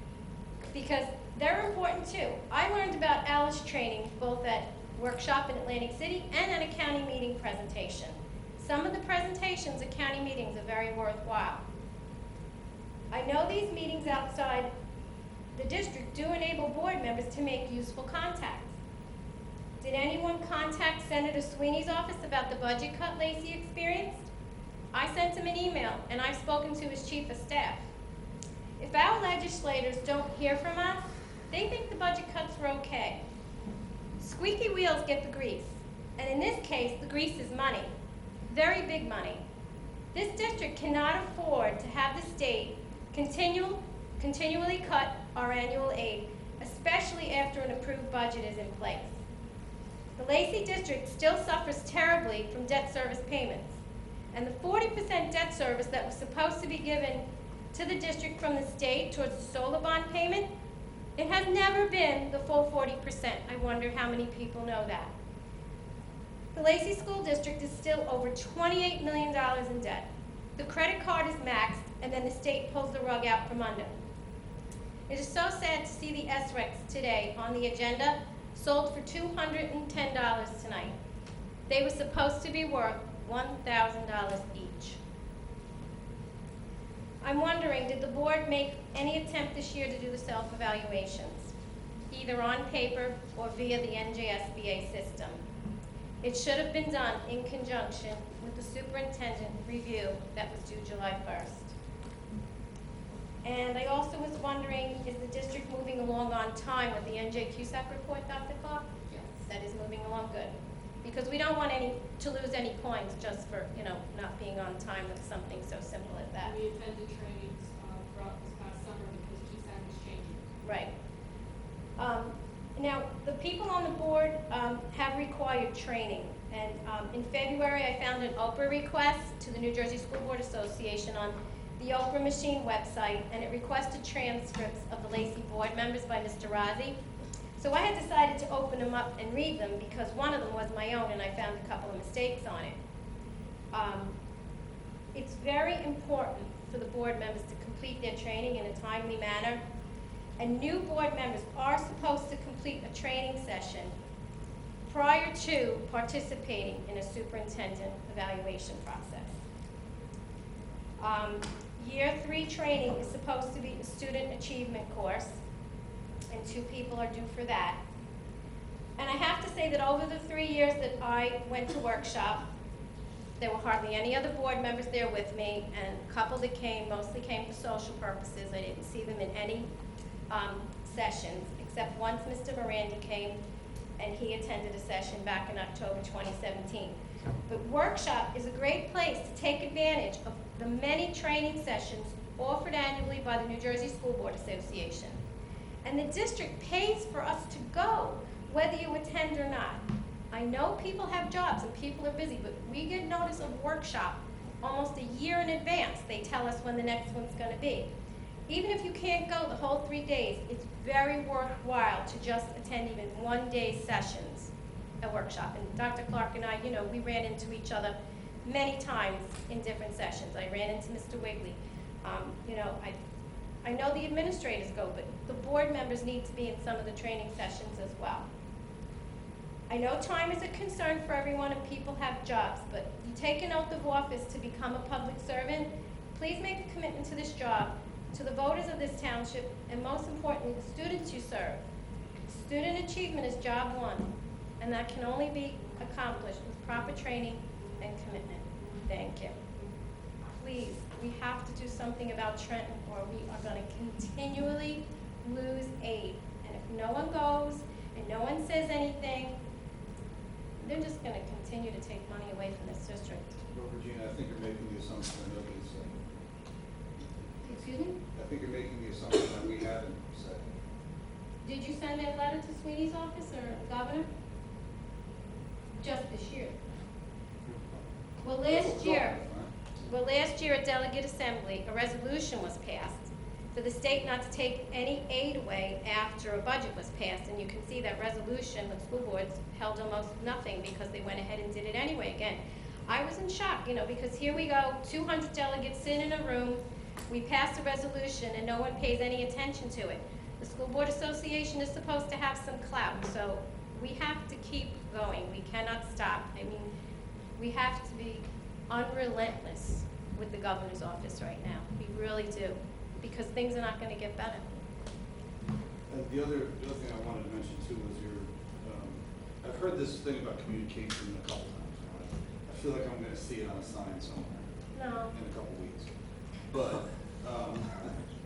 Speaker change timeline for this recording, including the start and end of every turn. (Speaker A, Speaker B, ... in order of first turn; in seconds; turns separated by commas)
Speaker A: 0.7-11.6, Speaker A: 13.1-14.7, Speaker A: 15.5-18.7, Speaker A: 19.8-24.2, Speaker A: 24.9-27.8, Speaker A: 28.8-33.2, Speaker A: 34.2-37.9, Speaker A: 38.5-39.4, Speaker A: 40.1-49.1, Speaker A: 50.2-53.7, Speaker A: 54.3-60.5, Speaker A: 61.2-65.1, Speaker A: 66.5-74.0, Speaker A: 75.1-80.9, Speaker A: 81.7-85.0, Speaker A: 87.2-91.5, Speaker A: 92.1-95.4, Speaker A: 96.2-101.7, Speaker A: 103.4-108.9, Speaker B: 109.1-109.3, Speaker A: 109.4-116.5, Speaker B: 116.4-120.4, Speaker A: 120.6-120.9, Speaker A: 122.0-136.9, Speaker A: 137.6-142.8, Speaker A: 143.7-144.1, Speaker A: 145.1-149.6, Speaker A: 150.4-153.9, Speaker A: 154.9-159.3, Speaker A: 161.0-165.3, Speaker A: 166.3-167.8, Speaker A: 169.0-172.4, Speaker A: 173.4-179.7, Speaker A: 180.3-183.4, Speaker A: 184.0-195.2, Speaker A: 195.8-207.9, Speaker A: 208.5-214.5, Speaker A: 215.0-222.9, Speaker A: 223.6-228.2, Speaker A: 229.7-241.6, Speaker A: 242.3-249.3, Speaker A: 250.4-259.3, Speaker A: 260.6-263.2, Speaker C: 263.5-266.1, Speaker A: 267.4-268.0, Speaker C: 268.1-270.6, Speaker A: 271.4-274.1, Speaker A: 275.8-276.6, Speaker C: 277.4-277.8, Speaker A: 278.2-279.2, Speaker C: 278.4-279.5, Speaker A: 279.8-306.7, Speaker A: 307.4-314.4, Speaker C: 315.9-324.5, Speaker A: 324.7-325.1, Speaker C: 325.1-328.1